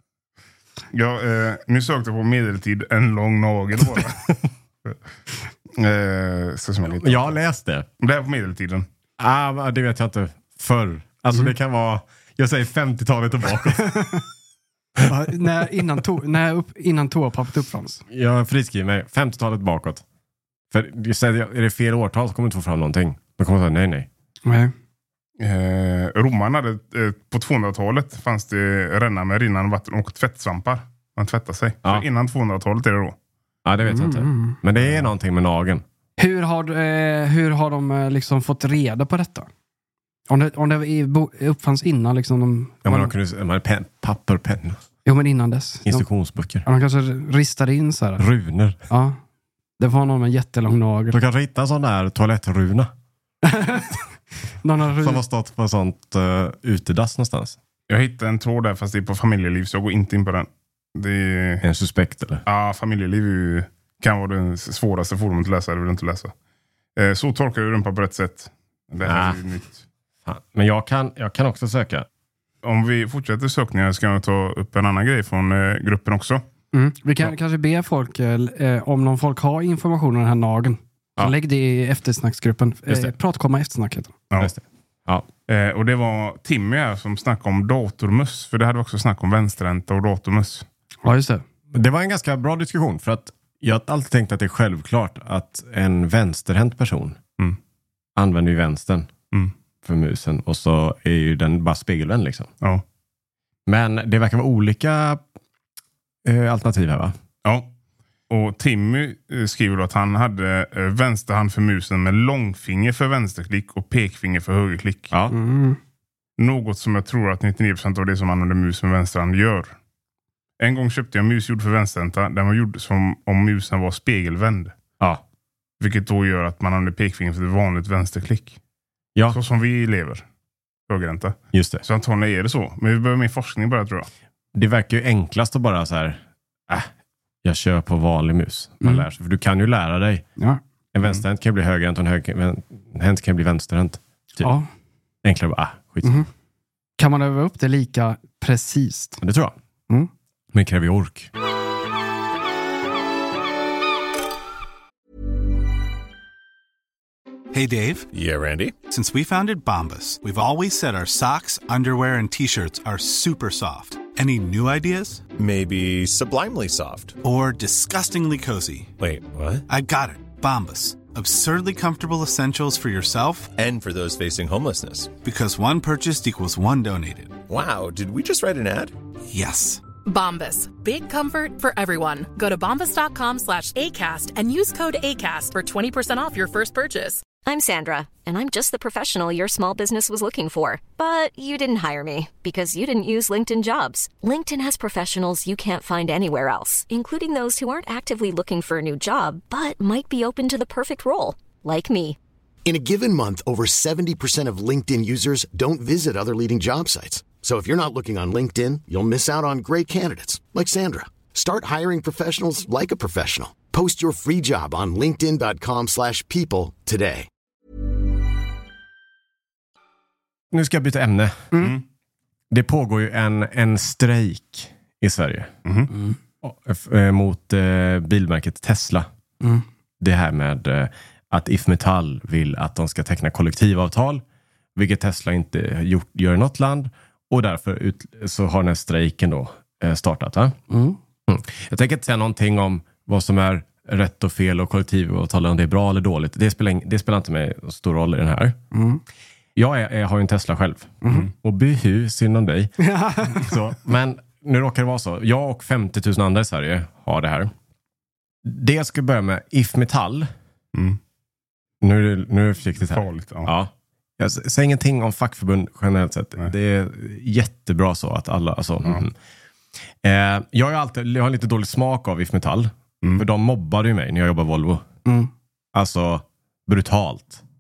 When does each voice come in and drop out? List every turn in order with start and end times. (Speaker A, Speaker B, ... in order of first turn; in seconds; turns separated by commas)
Speaker A: 0.9-4.2, Speaker A: 5.7-7.4, Speaker B: 7.0-7.9, Speaker A: 8.0-8.9, Speaker B: 9.2-14.2, Speaker C: 13.8-14.2, Speaker C: 15.0-18.0, Speaker B: 18.1-20.0, Speaker B: 20.7-24.1, Speaker C: 24.4-24.7, Speaker A: 25.4-33.1, Speaker B: 33.6-35.8, Speaker C: 33.9-34.6, Speaker C: 36.2-39.5, Speaker C: 40.3-43.1, Speaker B: 42.9-44.8, Speaker C: 45.0-46.1, Speaker B: 45.9-46.6, Speaker C: 46.6-48.2, Speaker B: 48.2-48.8, Speaker C: 48.9-49.2, Speaker C: 49.8-51.2, Speaker B: 51.1-52.9, Speaker C: 53.4-54.0, Speaker C: 54.6-55.2, Speaker B: 55.0-57.6, Speaker A: 57.9-61.6, Speaker B: 61.6-62.4, Speaker A: 62.5-66.3, Speaker A: 67.0-69.8, Speaker B: 69.0-69.4, Speaker B: 70.2-72.1, Speaker A: 72.6-76.4, Speaker C: 76.7-84.1, Speaker B: 82.9-83.1, Speaker B: 84.4-85.3, Speaker A: 85.5-90.7, Speaker C: 91.0-91.4, Speaker B: 91.7-97.2, Speaker B: 98.2-99.1, Speaker B: 99.8-102.5, Speaker B: 103.7-105.2, Speaker B: 106.2-107.2, Speaker A: 107.4-107.7, Speaker A: 108.3-115.1, Speaker B: 115.1-115.4, Speaker C: 115.3-115.8, Speaker A: 116.4-119.7, Speaker A: 120.6-124.7, Speaker A: 125.8-128.6, Speaker A: 129.3-130.2, Speaker A: 130.9-134.1, Speaker B: 131.5-131.8, Speaker B: 134.5-136.9, Speaker B: 137.4-140.2, Speaker B: 140.9-144.5, Speaker C: 144.4-144.7, Speaker B: 145.2-146.2, Speaker C: 147.0-149.2, Speaker B: 149.2-149.6, Speaker B: 150.5-151.3, Speaker D: 157.5-158.1, Speaker E: 158.1-158.7, Speaker D: 158.9-165.3, Speaker E: 165.3-167.2, Speaker D: 167.2-168.9, Speaker E: 169.0-169.6, Speaker D: 169.7-173.6, Speaker E: 173.6-175.1, Speaker D: 175.2-177.4, Speaker E: 177.5-178.9, Speaker D: 179.3-179.8, Speaker F: 180.1-187.2, Speaker G: 187.4-202.2, Speaker H: 202.7-217.3, Speaker B: 220.5-221.4, Speaker A: 221.6-221.8, Speaker B: 222.5-225.5, Speaker A: 225.6-225.9, Speaker C: 225.9-226.2, Speaker B: 226.4-229.1, Speaker B: 230.0-234.2, Speaker B: 234.7-240.6, Speaker C: 240.7-241.0, Speaker B: 241.3-248.6, Speaker C: 248.7-249.0, Speaker B: 249.6-252.7, Speaker C: 251.0-251.3, Speaker C: 252.8-253.5, Speaker B: 253.3-257.5, Speaker B: 258.4-260.3, Speaker A: 260.7-261.0, Speaker B: 261.8-269.1, Speaker A: 262.8-263.5, Speaker B: 270.0-274.9, Speaker B: 275.7-277.4